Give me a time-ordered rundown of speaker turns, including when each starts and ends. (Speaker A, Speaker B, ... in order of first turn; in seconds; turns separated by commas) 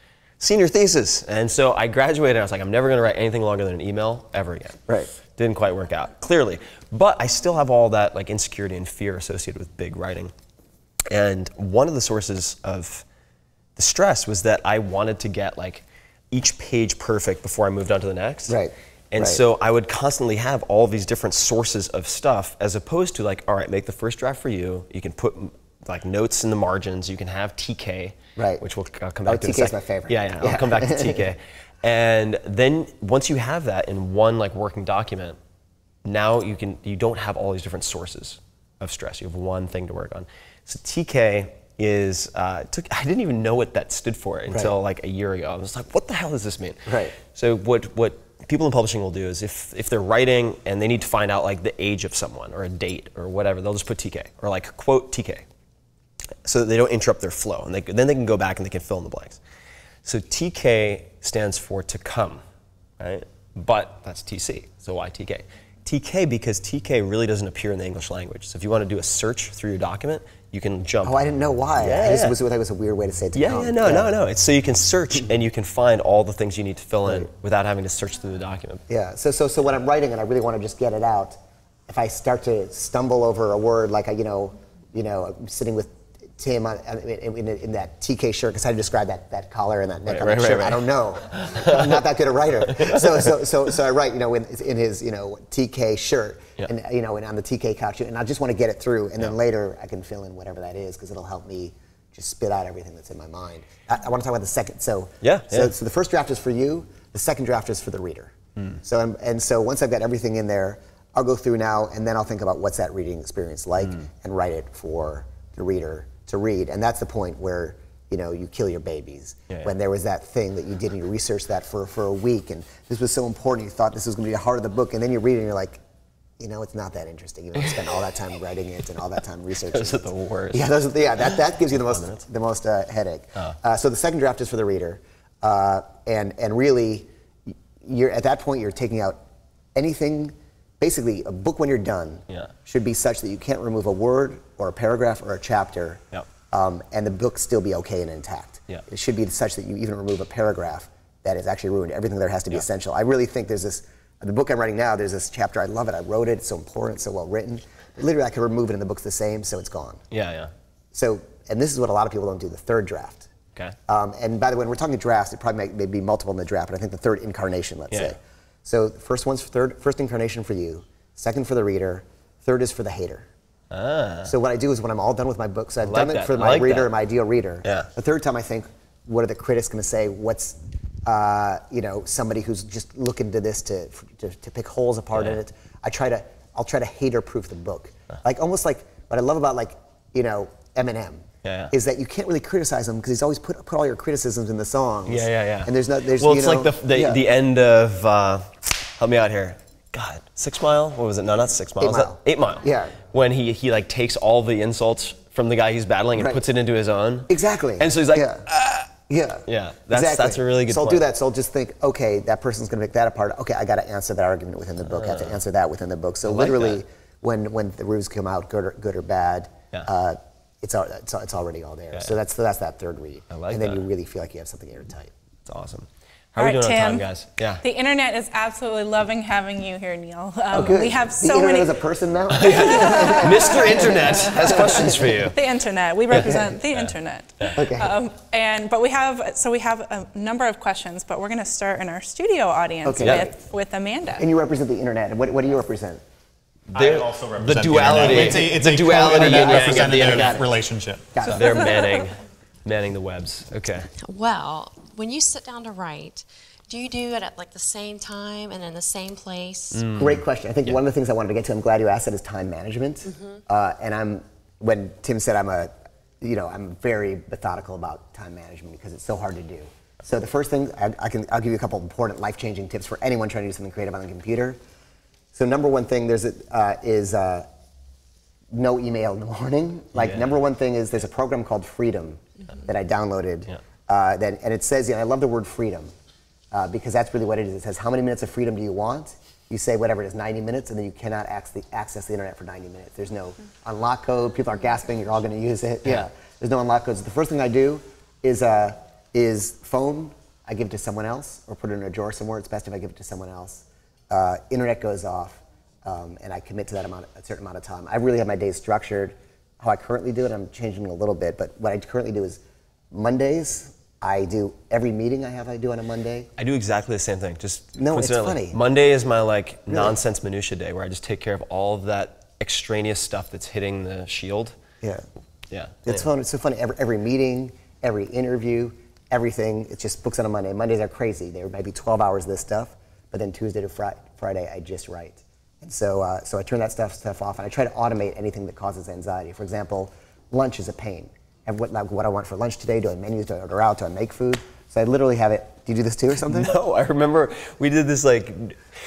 Speaker A: 0.4-10.3, Speaker A: 11.1-13.1, Speaker A: 13.8-18.6, Speaker B: 18.5-19.4, Speaker A: 19.1-35.4, Speaker B: 28.4-28.6, Speaker B: 29.2-31.2, Speaker A: 36.0-55.5, Speaker B: 46.9-47.1, Speaker A: 56.5-59.4, Speaker A: 60.0-62.4, Speaker A: 63.0-71.2, Speaker B: 71.0-74.1, Speaker A: 71.8-72.4, Speaker A: 73.3-78.8, Speaker B: 78.9-125.8, Speaker A: 90.1-92.0, Speaker A: 92.7-93.3, Speaker A: 105.2-105.7, Speaker B: 126.4-139.2, Speaker A: 129.7-130.7, Speaker A: 131.9-132.2, Speaker B: 139.8-160.0, Speaker A: 160.1-160.5, Speaker B: 160.9-163.3, Speaker B: 163.9-173.3, Speaker A: 173.7-174.3, Speaker B: 174.2-197.2, Speaker A: 175.8-176.9, Speaker A: 177.6-177.9, Speaker A: 185.1-185.4, Speaker A: 191.4-191.7, Speaker A: 195.1-208.8, Speaker B: 201.8-203.0, Speaker B: 206.2-206.4, Speaker B: 207.3-208.5, Speaker B: 209.1-225.1, Speaker A: 209.5-211.1, Speaker A: 214.9-215.4, Speaker A: 216.3-216.8, Speaker A: 223.3-223.8, Speaker A: 225.5-227.6, Speaker C: 226.4-227.1, Speaker C: 227.6-231.8, Speaker B: 230.5-235.2, Speaker A: 232.3-235.4, Speaker C: 232.5-244.3, Speaker A: 236.1-237.6, Speaker B: 236.1-236.5, Speaker B: 237.6-238.0, Speaker B: 242.8-243.3, Speaker A: 243.0-243.3, Speaker B: 244.2-246.0, Speaker A: 246.7-250.5, Speaker D: 246.8-251.2, Speaker B: 249.0-250.5, Speaker B: 251.1-251.7, Speaker A: 251.2-253.9, Speaker E: 254.0-259.9, Speaker A: 259.7-260.2, Speaker B: 259.9-274.6, Speaker B: 275.3-277.5, Speaker B: 278.5-285.9, Speaker A: 280.0-280.3, Speaker B: 286.5-316.3, Speaker A: 316.4-324.6, Speaker B: 317.8-318.6, Speaker A: 325.5-326.0, Speaker B: 325.9-346.5, Speaker A: 346.3-348.6